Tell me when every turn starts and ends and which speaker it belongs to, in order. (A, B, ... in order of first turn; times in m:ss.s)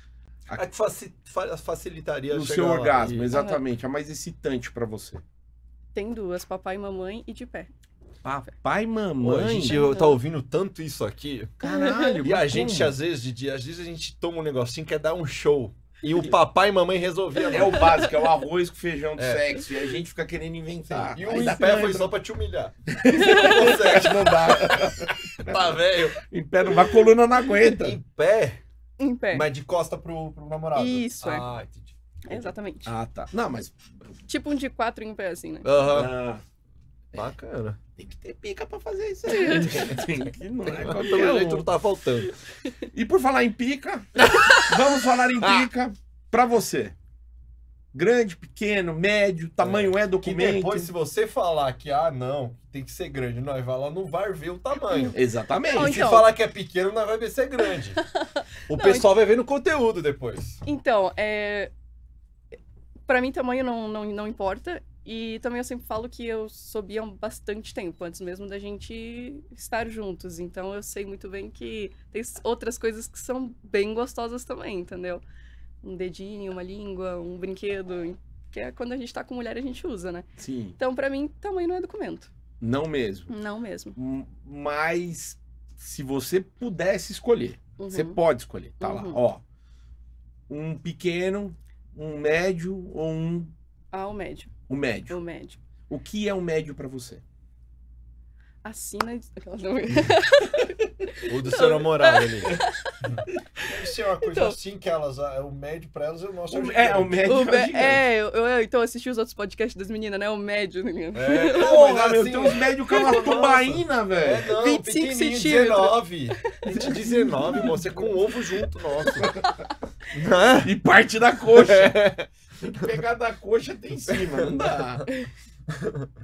0:00.6-0:03.4 A
0:02.3-0:05.2 B
0:03.3-0:03.6 C
0:06.0-0:07.7 C
0:08.2-0:09.9 B
0:09.2-0:11.6 A
0:09.8-0:10.2 C
0:11.6-0:13.0 B
0:11.6-0:12.2 C
0:12.2-0:18.0 A
0:17.5-0:22.1 B
0:17.6-0:18.2 C
0:19.2-0:19.7 A
0:20.9-0:22.8 A
0:22.9-0:28.0 B
0:23.1-0:24.0 C
0:23.3-0:27.0 A
0:27.8-0:28.6 A
0:29.0-0:29.5 C
0:29.3-0:32.5 A
0:30.8-0:31.5 C
0:32.3-0:32.9 C
0:32.8-0:33.8 B
0:34.3-0:35.7 C
0:35.6-0:36.2 A
0:35.8-0:36.4 B
0:37.2-0:37.8 A
0:38.0-0:41.7 B
0:39.3-0:39.7 C
0:40.8-0:42.3 A
0:42.8-0:47.0 B
0:44.3-0:44.6 A
0:47.9-0:50.9 B
0:49.6-0:55.2 A
0:54.9-0:55.2 C
0:55.1-0:56.0 B
0:55.7-0:56.4 C
0:55.7-0:58.0 A
0:58.2-0:59.1 C
0:58.7-1:00.6 A
1:00.7-1:01.7 C
1:03.1-1:15.2 C
1:15.8-1:20.3 C
1:20.4-1:20.8 B
1:20.8-1:22.3 C
1:22.6-1:23.3 B
1:23.3-1:24.0 C
1:24.0-1:29.4 B
1:27.8-1:28.2 C
1:28.8-1:29.2 C
1:30.5-1:33.5 B
1:33.9-1:34.5 C
1:34.7-1:35.2 B
1:35.1-1:35.6 C
1:35.9-1:37.2 B
1:38.6-1:42.9 C
1:41.2-1:47.2 A
1:44.2-1:44.6 C
1:46.5-1:48.1 B
1:47.2-1:51.8 C
1:51.1-1:59.4 A
1:51.6-1:54.5 B
1:52.9-1:53.4 C
1:54.6-1:57.5 C
2:00.1-2:00.7 A
2:00.6-2:05.0 B
2:01.5-2:02.2 A
2:04.1-2:04.6 A